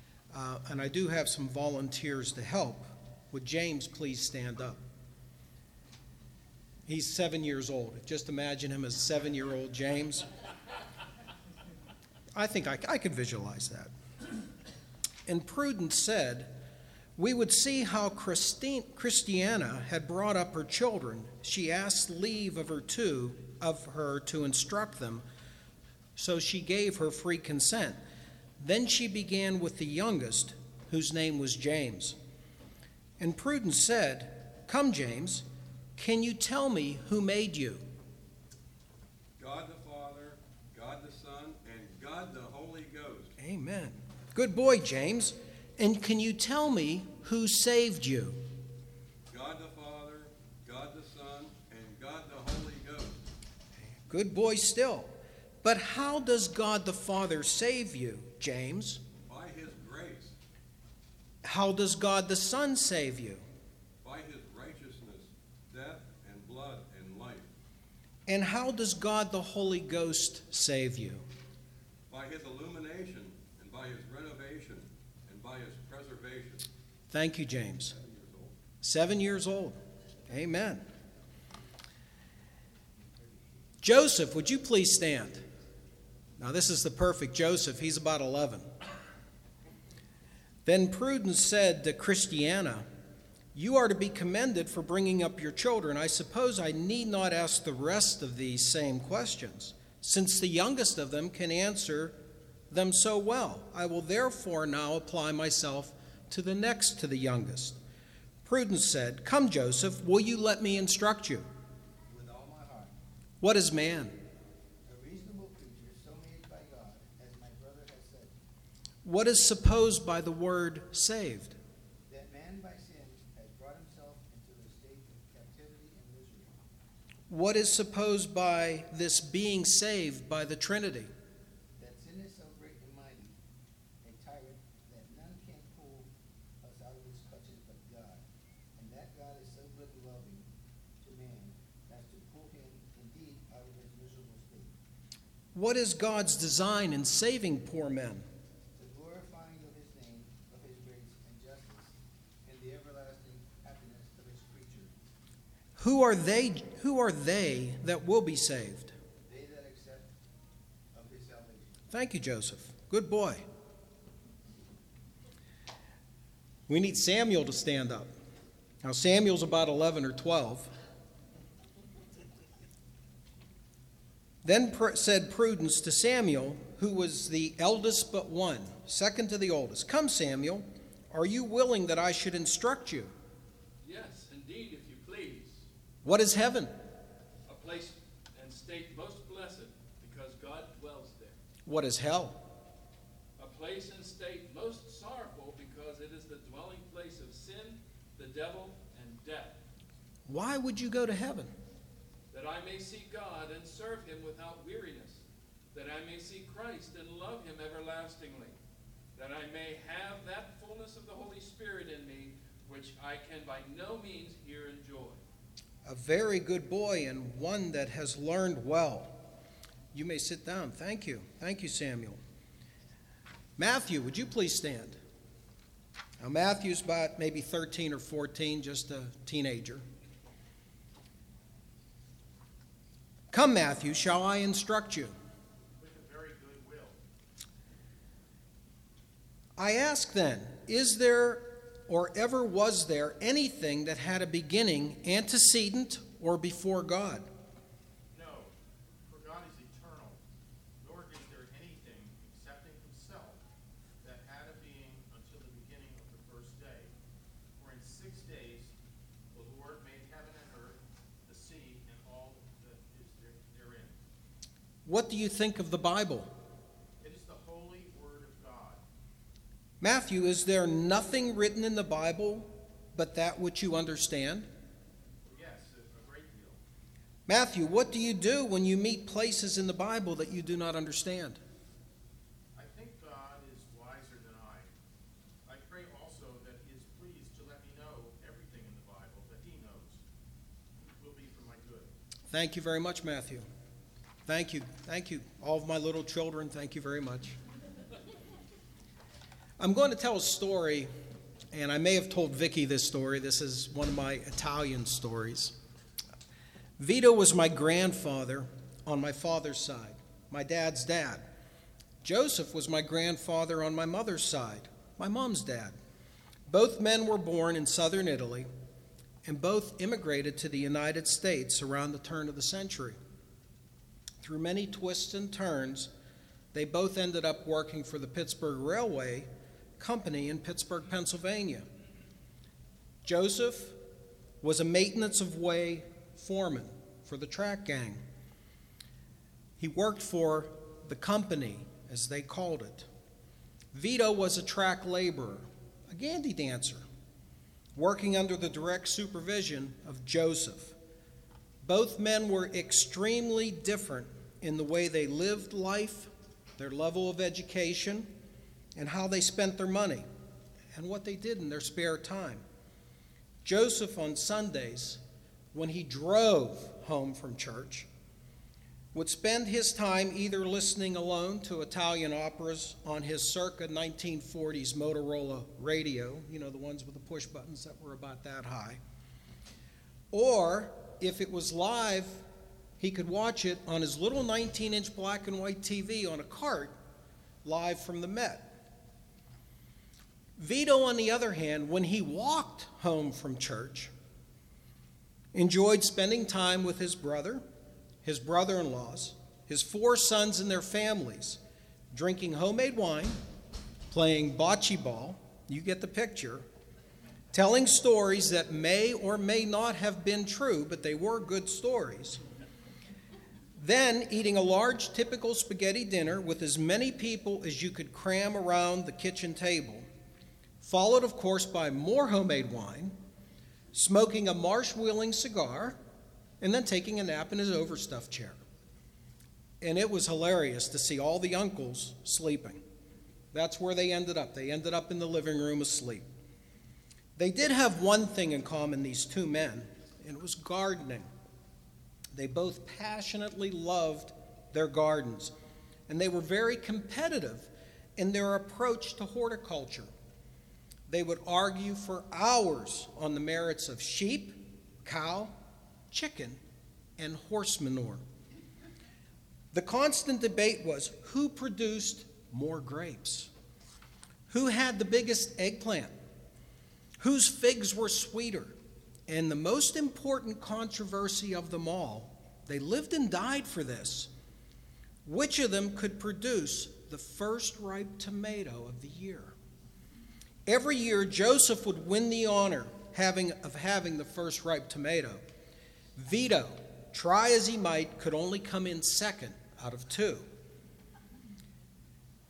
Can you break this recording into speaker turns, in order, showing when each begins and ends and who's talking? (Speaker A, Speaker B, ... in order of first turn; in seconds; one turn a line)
Speaker A: 0.3-4.8
Speaker A: 6.9-10.3
Speaker A: 12.4-13.9
Speaker A: 15.3-16.6
Speaker A: 17.2-25.2
Speaker A: 26.2-28.0
Speaker A: 28.6-32.2
Speaker A: 33.2-35.5
Speaker A: 36.0-37.9
Speaker B: 39.4-43.3
Speaker A: 43.4-48.4
Speaker B: 49.3-53.2
Speaker A: 54.1-55.1
Speaker A: 55.6-59.0
Speaker B: 59.3-60.3
Speaker A: 61.4-63.4
Speaker B: 64.0-67.5
Speaker A: 68.3-71.2
Speaker B: 72.1-76.7
Speaker A: 77.1-78.0
Speaker B: 78.0-78.5
Speaker A: 78.8-80.8
Speaker A: 83.8-85.4
Speaker A: 86.4-88.7
Speaker A: 90.7-92.8
Speaker A: 93.5-102.2
Speaker A: 102.7-107.8
Speaker A: 108.5-111.5
Speaker C: 112.1-112.9
Speaker A: 113.4-114.2
Speaker C: 114.9-118.3
Speaker A: 119.0-121.6
Speaker C: 122.1-126.6
Speaker A: 127.3-131.1
Speaker C: 131.8-133.4
Speaker C: 134.0-136.1
Speaker C: 136.6-138.2
Speaker C: 138.8-140.5
Speaker C: 141.0-144.7
Speaker A: 145.5-148.2
Speaker C: 148.8-154.9
Speaker A: 155.8-158.9
Speaker C: 159.3-160.1
Speaker C: 160.9-161.8
Speaker A: 161.9-163.4
Speaker A: 166.7-168.1
Speaker A: 168.8-170.7
Speaker A: 174.4-183.1
Speaker D: 183.8-185.7
Speaker A: 186.0-186.7
Speaker D: 187.5-191.4
Speaker A: 191.7-192.4
Speaker D: 193.4-199.6
Speaker A: 200.3-201.5
Speaker D: 202.3-208.6
Speaker D: 209.2-215.2
Speaker A: 215.8-219.2
Speaker A: 219.9-222.2
Speaker A: 223.6-225.0
Speaker A: 226.2-229.8
Speaker A: 233.3-235.1
Speaker E: 235.8-237.0
Speaker A: 239.6-247.3
Speaker E: 248.1-248.5
Speaker E: 249.1-250.2
Speaker E: 250.8-253.4
Speaker E: 254.0-256.9
Speaker E: 257.6-258.7
Speaker E: 259.3-264.0
Speaker A: 264.9-266.3
Speaker E: 267.0-268.8
Speaker A: 269.8-274.5
Speaker E: 275.2-276.6
Speaker A: 277.3-281.4
Speaker E: 282.6-284.7
Speaker E: 285.4-290.0
Speaker E: 291.0-291.9
Speaker A: 292.3-293.5
Speaker A: 294.3-297.4
Speaker A: 299.6-300.9
Speaker A: 301.5-305.6
Speaker A: 306.8-311.3
Speaker A: 312.0-315.8
Speaker A: 316.5-318.5
Speaker A: 319.2-323.0
Speaker A: 324.2-325.9
Speaker A: 326.5-329.3
Speaker A: 329.8-331.7
Speaker A: 333.0-333.8
Speaker A: 334.4-338.0
Speaker A: 339.6-342.9
Speaker A: 343.7-346.8
Speaker A: 347.8-350.8
Speaker A: 351.6-358.1
Speaker A: 358.8-360.1
Speaker A: 360.7-362.4
Speaker A: 363.4-365.0
Speaker A: 365.5-367.9
Speaker A: 368.9-378.8
Speaker A: 380.1-382.2
Speaker A: 382.8-386.8
Speaker A: 387.4-388.5
Speaker A: 390.4-393.9
Speaker A: 395.3-397.4
Speaker A: 398.0-401.4
Speaker A: 401.9-403.2
Speaker A: 403.9-406.4
Speaker A: 407.3-412.2
Speaker A: 413.6-419.9
Speaker A: 420.6-423.0
Speaker A: 423.7-425.8
Speaker A: 426.4-428.4
Speaker A: 429.6-432.6
Speaker A: 433.3-436.1
Speaker A: 437.2-441.1
Speaker A: 442.1-445.3
Speaker A: 445.9-449.9
Speaker A: 450.9-455.4
Speaker A: 455.9-456.4
Speaker A: 457.0-458.0
Speaker A: 459.5-463.3
Speaker A: 464.3-465.9
Speaker A: 467.0-468.6
Speaker A: 469.1-474.1
Speaker A: 475.1-479.3
Speaker A: 480.5-485.2
Speaker A: 486.0-490.3